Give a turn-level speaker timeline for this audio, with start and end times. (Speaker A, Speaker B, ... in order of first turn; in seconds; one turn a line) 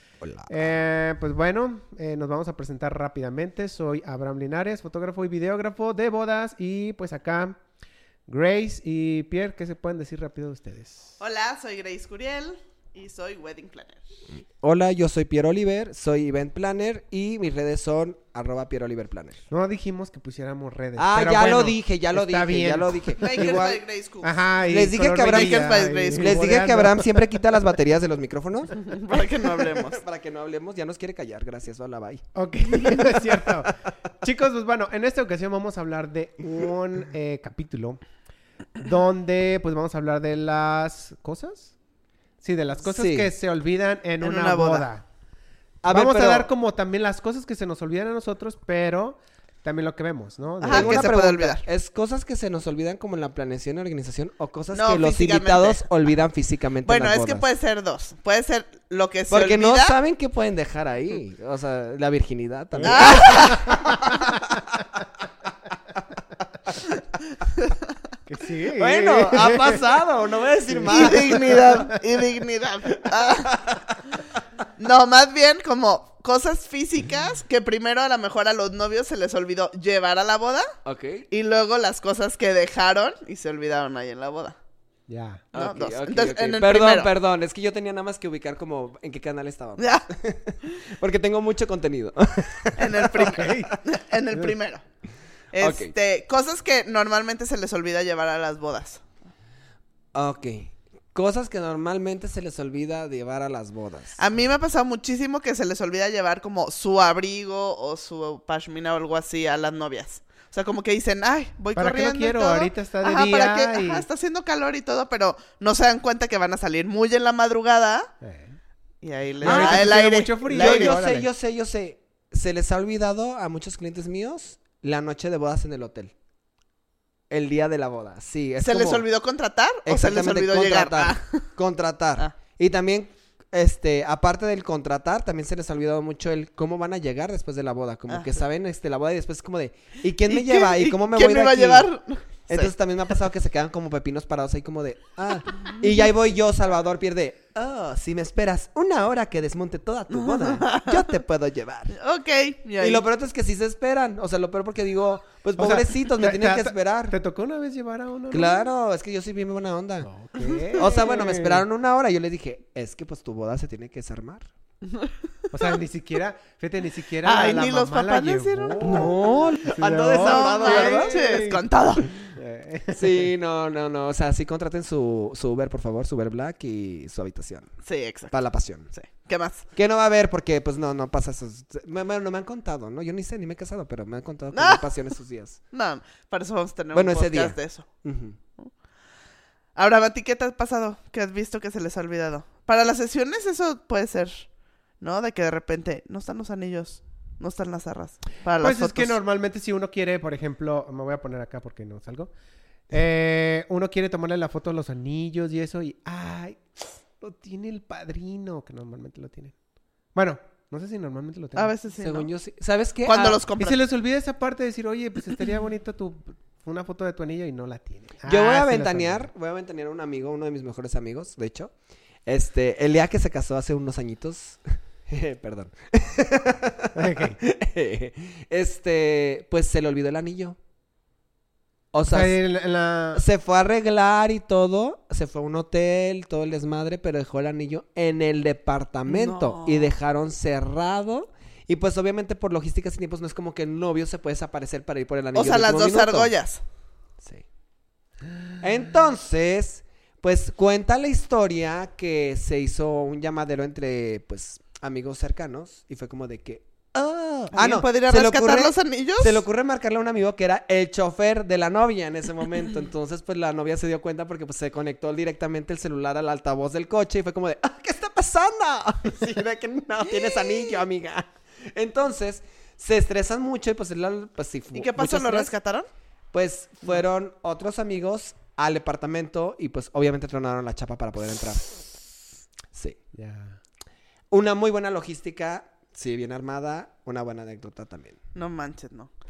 Speaker A: 0.2-0.5
Speaker B: 0.5-7.6
Speaker B: 8.3-11.2
Speaker C: 11.2-14.0
Speaker A: 14.6-19.4
Speaker B: 19.5-23.1
Speaker A: 21.0-23.8
Speaker C: 23.2-24.4
Speaker B: 24.2-27.3
Speaker A: 24.7-33.7
Speaker C: 25.1-26.4
Speaker C: 28.8-30.0
Speaker B: 32.3-38.0
Speaker B: 38.8-41.8
Speaker B: 42.4-45.0
Speaker A: 42.9-43.3
Speaker C: 44.2-44.9
Speaker A: 45.8-46.5
Speaker B: 45.9-51.1
Speaker C: 50.6-51.6
Speaker A: 50.7-57.5
Speaker C: 54.7-55.8
Speaker C: 56.9-60.0
Speaker A: 59.3-64.8
Speaker B: 62.8-64.6
Speaker C: 62.8-63.8
Speaker B: 68.3-69.9
Speaker A: 68.8-71.7
Speaker B: 70.7-72.0
Speaker C: 70.9-73.6
Speaker A: 73.1-74.4
Speaker C: 74.8-80.7
Speaker A: 80.8-81.3
Speaker C: 81.3-84.6
Speaker B: 85.1-85.5
Speaker A: 85.5-93.7
Speaker C: 85.5-87.1
Speaker C: 89.8-90.1
Speaker C: 92.8-94.8
Speaker B: 93.2-93.8
Speaker C: 95.5-99.0
Speaker A: 95.6-95.9
Speaker A: 100.1-104.2
Speaker C: 104.2-118.1
Speaker B: 111.8-114.1
Speaker B: 118.2-118.6
Speaker C: 119.0-121.0
Speaker B: 119.4-121.3
Speaker A: 119.4-126.1
Speaker A: 127.3-129.1
Speaker C: 128.6-131.4
Speaker A: 129.8-141.9
Speaker C: 138.1-138.4
Speaker C: 140.3-142.7
Speaker A: 142.5-152.0
Speaker C: 145.7-146.0
Speaker C: 150.1-151.1
Speaker C: 152.0-153.0
Speaker A: 152.8-157.2
Speaker B: 155.6-158.6
Speaker A: 158.3-160.1
Speaker B: 160.0-161.6
Speaker C: 160.4-160.8
Speaker A: 160.8-164.5
Speaker C: 164.8-165.5
Speaker B: 165.5-169.2
Speaker C: 167.2-169.1
Speaker A: 168.8-171.4
Speaker B: 169.7-171.7
Speaker C: 170.1-172.1
Speaker B: 172.2-173.3
Speaker A: 172.9-177.8
Speaker C: 177.8-179.7
Speaker A: 178.3-178.9
Speaker A: 179.7-185.6
Speaker C: 184.5-184.9
Speaker C: 185.7-187.9
Speaker A: 186.9-188.4
Speaker C: 189.8-194.5
Speaker C: 195.0-199.2
Speaker B: 198.6-202.3
Speaker B: 202.9-206.6
Speaker B: 207.2-209.6
Speaker B: 210.1-211.7
Speaker C: 211.6-212.3
Speaker A: 212.0-213.4
Speaker C: 213.1-213.8
Speaker B: 213.6-219.3
Speaker A: 218.2-221.7
Speaker A: 222.2-230.6
Speaker B: 226.9-227.4
Speaker A: 231.9-232.4
Speaker B: 232.1-233.2
Speaker A: 233.1-246.3
Speaker C: 239.1-239.9
Speaker C: 245.3-246.6
Speaker A: 247.2-247.4
Speaker A: 248.6-275.5
Speaker C: 257.5-259.4
Speaker C: 270.3-270.7
Speaker C: 274.8-275.9
Speaker A: 276.3-282.0
Speaker A: 282.7-283.0
Speaker B: 283.1-283.6
Speaker A: 284.3-288.2
Speaker C: 288.4-289.1